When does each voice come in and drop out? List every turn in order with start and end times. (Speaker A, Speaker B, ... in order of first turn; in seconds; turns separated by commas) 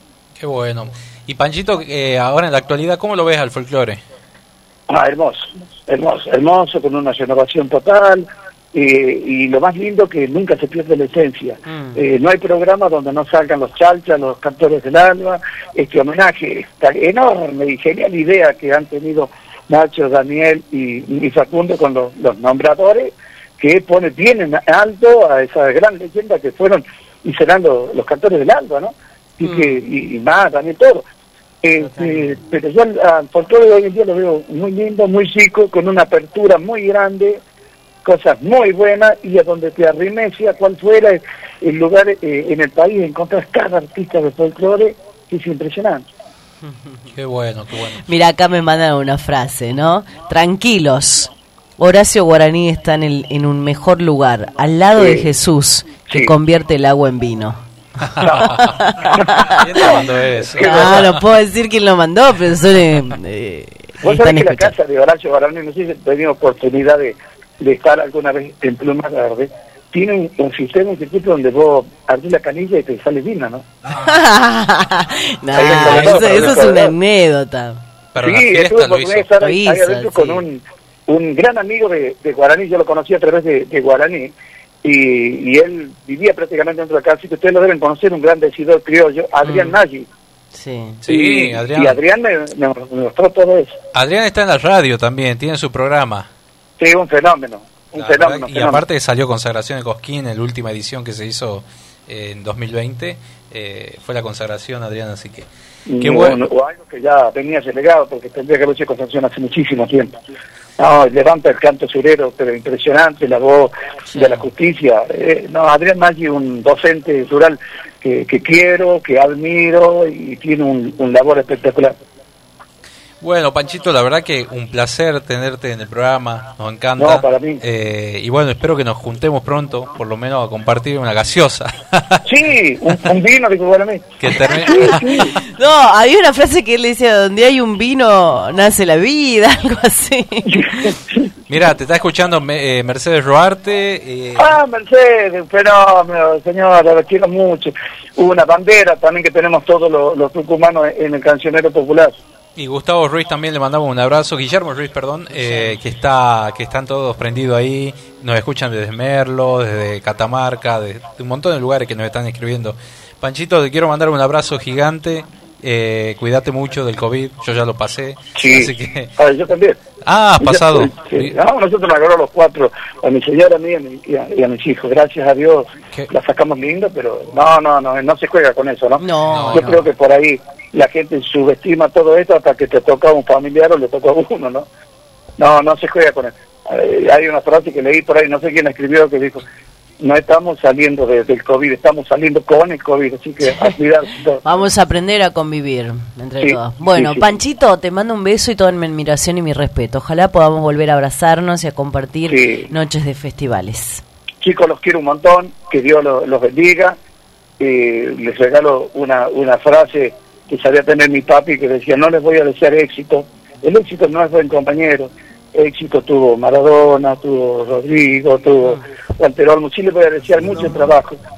Speaker A: 0.4-4.0, Speaker B: 4.9-31.1, Speaker C: 11.7-12.0, Speaker C: 29.4-29.8, Speaker B: 31.6-37.4, Speaker C: 31.8-32.4, Speaker B: 38.0-46.1, Speaker A: 47.1-48.0, Speaker C: 48.0-57.6, Speaker B: 55.0-55.2, Speaker A: 58.1-58.7, Speaker C: 58.2-60.0, Speaker A: 59.5-61.2, Speaker B: 60.5-61.1, Speaker C: 60.6-64.8, Speaker B: 64.0-73.7, Speaker C: 73.9-77.8, Speaker B: 75.5-76.9, Speaker A: 75.7-76.7, Speaker A: 78.1-79.3, Speaker B: 78.2-84.3, Speaker C: 79.4-80.4, Speaker B: 84.8-90.1, Speaker C: 89.4-89.8, Speaker C: 90.5-91.0, Speaker A: 91.0-92.0, Speaker B: 91.1-93.8, Speaker A: 93.9-96.3, Speaker B: 96.8-98.8, Speaker A: 98.0-105.5, Speaker B: 105.9-110.1, Speaker A: 106.0-106.4, Speaker B: 110.8-122.0, Speaker C: 114.1-114.4, Speaker A: 123.2-132.2, Speaker B: 127.0-127.6, Speaker B: 132.3-135.2, Speaker A: 134.2-135.2, Speaker C: 134.7-141.0, Speaker B: 140.6-141.2, Speaker A: 141.5-144.6, Speaker B: 144.4-152.2, Speaker A: 152.6-169.1, Speaker B: 168.3-169.8, Speaker A: 170.0-171.3, Speaker B: 170.4-184.7, Speaker C: 179.0-179.8, Speaker A: 179.3-179.9, Speaker B: 185.4-189.4, Speaker B: 190.0-194.4, Speaker C: 194.4-204.0, Speaker B: 196.4-197.3, Speaker B: 202.3-202.7, Speaker B: 204.4-207.0, Speaker B: 207.6-221.2